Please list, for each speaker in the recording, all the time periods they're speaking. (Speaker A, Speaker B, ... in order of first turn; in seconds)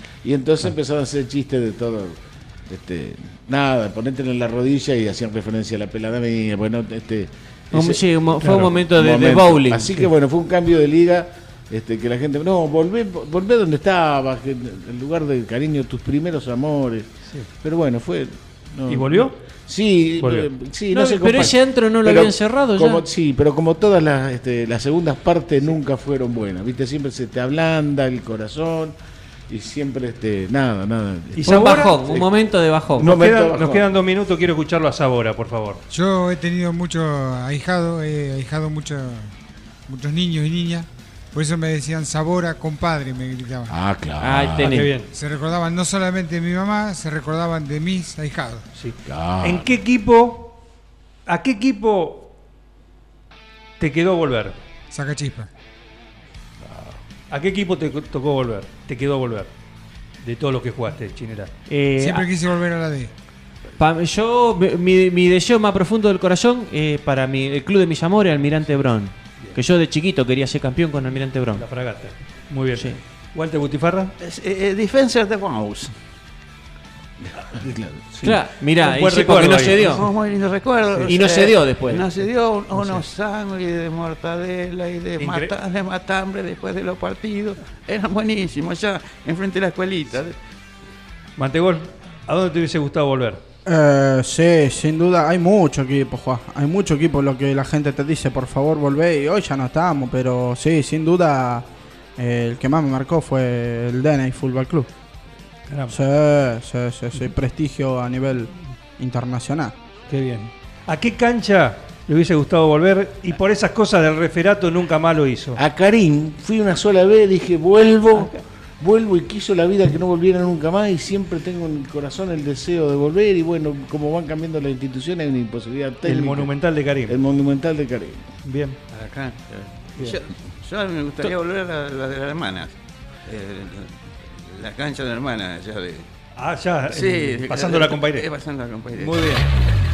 Speaker A: 0.2-2.2, 2.7-8.1, 8.9-28.9, 29.5-32.3, 33.0-33.9, 43.7-44.9, 49.1-49.7, 56.6-57.0, 77.5-78.3, 115.6-126.5, 127.1-128.3
Speaker B: 7.7-10.0, 20.9-23.0, 31.4-33.1, 44.2-44.9, 61.7-62.3, 63.8-71.7, 78.2-80.1, 81.1-82.0
Speaker C: 8.4-8.8, 18.9-19.4, 20.2-20.5, 31.4-32.0, 33.0-35.8, 44.6-45.1, 48.8-50.6, 51.3-52.3, 53.8-54.6, 57.3-59.5, 60.2-61.5, 71.6-74.1, 78.3-80.0, 82.7-83.0, 85.2-85.5, 91.4-93.4, 105.7-106.0, 110.1-115.6, 126.0-127.2, 128.4-128.8, 136.4-138.3, 138.9-139.5
Speaker D: 35.9-39.3, 39.9-43.8, 45.1-48.6, 54.9-55.5, 62.0-63.1
Speaker E: 74.2-75.9, 79.8-90.3, 128.9-132.8, 133.3-133.9, 134.5-136.1, 136.9-139.4
Speaker F: 93.7-104.9, 105.9-109.7